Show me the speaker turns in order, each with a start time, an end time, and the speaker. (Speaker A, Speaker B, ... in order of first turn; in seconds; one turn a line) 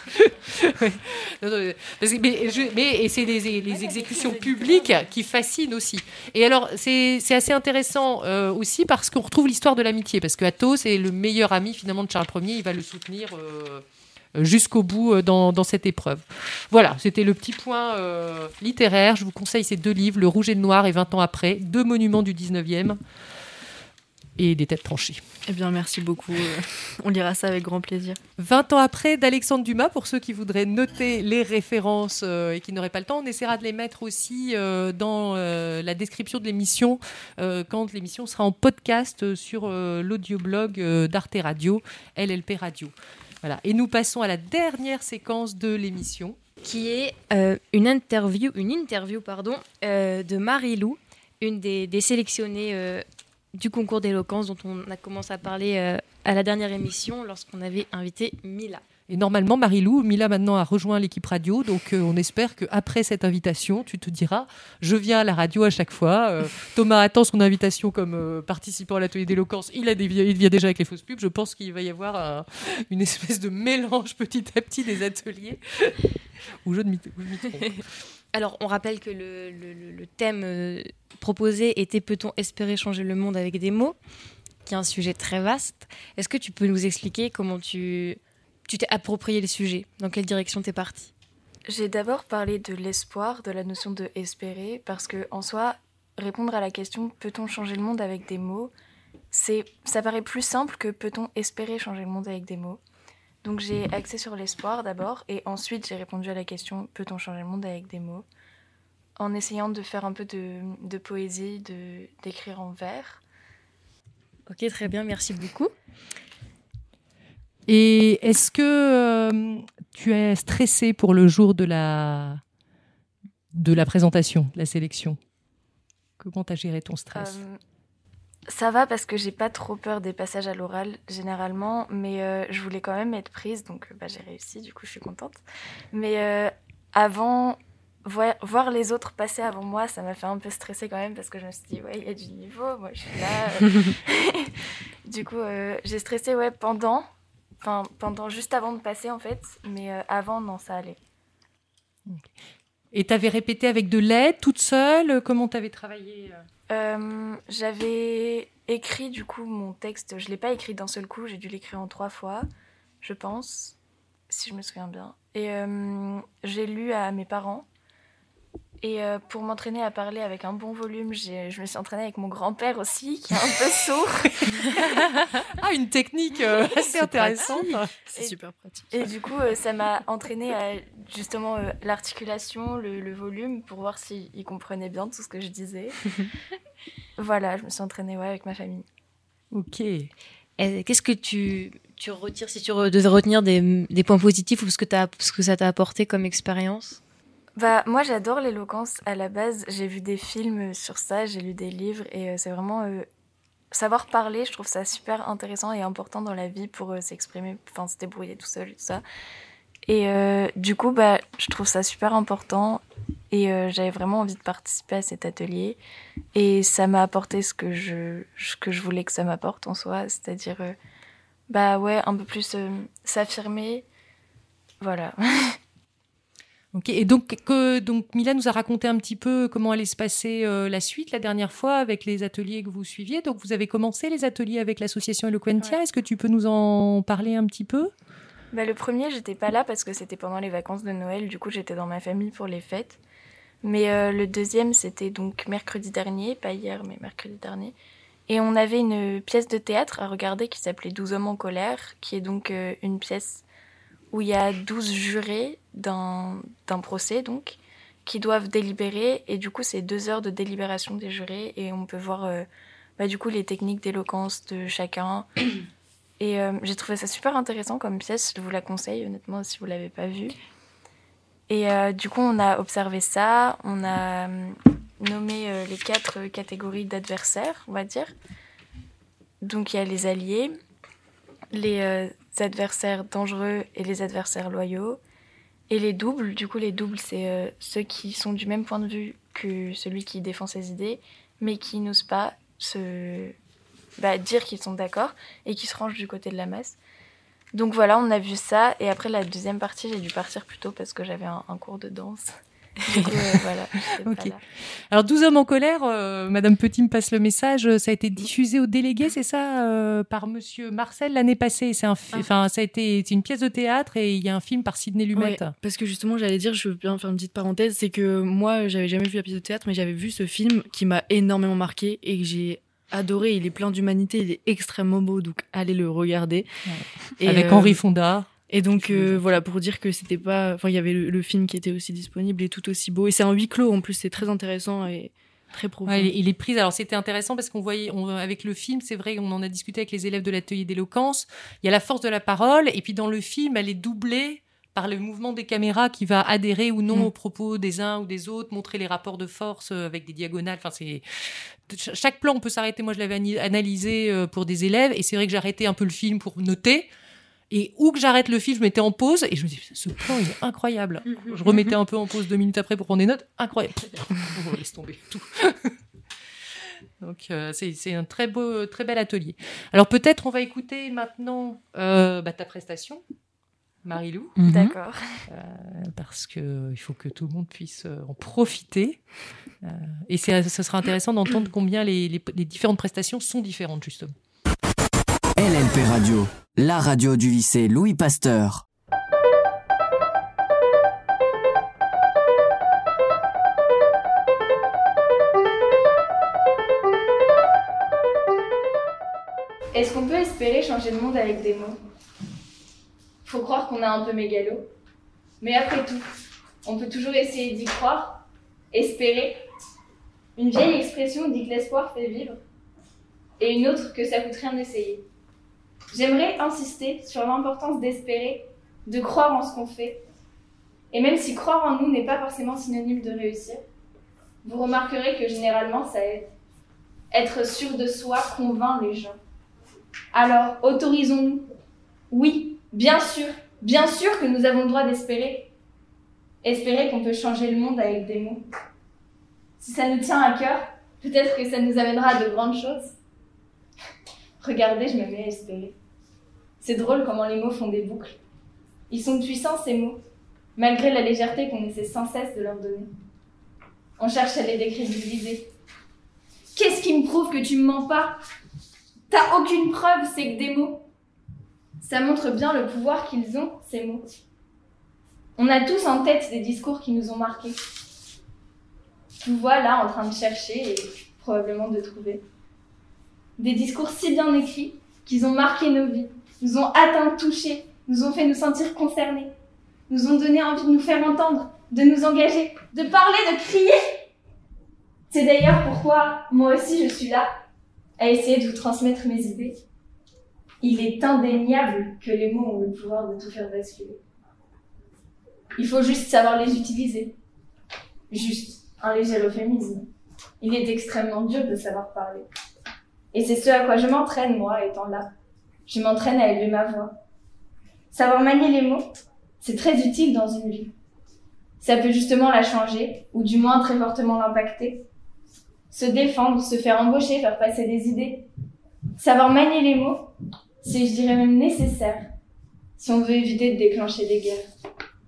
Speaker A: 0.1-13.8
Speaker A: 14.4-23.0
Speaker A: 24.4-25.2
Speaker B: 25.5-28.2
Speaker A: 28.4-46.4
Speaker C: 46.6-58.8
Speaker A: 59.1-76.1
Speaker A: 76.7-77.9
Speaker C: 78.3-84.0
Speaker C: 84.7-91.1
Speaker D: 91.7-98.7
Speaker D: 99.3-102.8
Speaker D: 103.4-108.3
Speaker D: 109.2-113.2
Speaker C: 114.5-115.7
Speaker A: 117.7-122.4
Speaker A: 123.5-125.2
Speaker A: 126.2-127.4
Speaker D: 127.1-127.6
Speaker D: 128.5-135.4
Speaker D: 135.9-144.5
Speaker D: 145.1-147.1
Speaker D: 147.6-151.0
Speaker A: 152.9-156.4
Speaker D: 156.7-162.4
Speaker D: 163.0-163.8
Speaker D: 164.3-167.7
Speaker D: 168.8-174.7
Speaker A: 174.7-177.9
Speaker B: 176.8-179.1
Speaker D: 178.9-186.0
Speaker D: 187.2-188.8
Speaker A: 189.5-190.1
Speaker C: 190.6-197.0
Speaker D: 197.6-203.1
Speaker D: 203.7-209.0
Speaker D: 209.9-215.8
Speaker D: 216.3-220.8
Speaker D: 221.5-223.9
Speaker D: 224.8-225.6
Speaker A: 226.7-237.9
Speaker D: 238.5-243.0
Speaker D: 243.6-247.8
Speaker D: 248.3-253.4
Speaker D: 254.1-262.5
Speaker D: 263.0-265.3
Speaker D: 266.2-270.4
Speaker D: 271.5-278.1
Speaker D: 279.4-280.5
Speaker D: 281.5-285.0
Speaker D: 285.7-293.4
Speaker D: 294.0-296.8
Speaker D: 297.5-302.3
Speaker D: 302.9-304.4
Speaker A: 302.9-303.4
Speaker A: 304.1-304.4
Speaker A: 304.9-315.6
Speaker B: 315.1-326.5
Speaker A: 326.7-329.4
Speaker B: 327.2-327.8
Speaker B: 328.5-336.1
Speaker A: 335.9-351.0
Speaker A: 351.7-356.9
Speaker A: 357.5-365.8
Speaker A: 367.0-373.0
Speaker A: 373.8-374.4
Speaker D: 374.4-375.0
Speaker A: 375.3-379.0
Speaker A: 379.6-384.1
Speaker E: 385.4-388.6
Speaker F: 399.7-401.8
Speaker F: 403.2-404.7
Speaker F: 405.4-406.0
Speaker F: 406.6-409.4
Speaker F: 410.4-412.4
Speaker F: 413.4-415.1
Speaker F: 415.9-420.0
Speaker F: 420.9-423.6
Speaker F: 424.4-426.3
Speaker F: 427.1-429.2
Speaker F: 430.1-431.5
Speaker F: 432.1-435.5
Speaker F: 436.4-438.4
Speaker F: 439.6-443.0
Speaker F: 444.4-445.8
Speaker F: 446.6-448.2
Speaker F: 448.9-450.0
Speaker F: 450.6-452.9
Speaker F: 454.0-455.5
Speaker F: 456.6-458.2
Speaker F: 459.1-460.9
Speaker F: 461.8-464.1
Speaker F: 465.4-467.6
Speaker F: 469.2-472.2
Speaker F: 473.4-479.3
Speaker F: 479.9-483.8
Speaker F: 485.1-487.3
Speaker F: 488.0-489.6
Speaker F: 490.6-494.0
Speaker F: 495.6-497.2
Speaker F: 498.1-499.9
Speaker F: 500.4-502.3
Speaker F: 503.1-505.1
Speaker F: 505.7-506.9
Speaker F: 507.9-508.8
Speaker F: 509.4-510.7
Speaker F: 511.6-514.9
Speaker F: 515.7-518.3
Speaker F: 519.0-520.1
Speaker F: 520.6-522.0
Speaker F: 522.8-524.4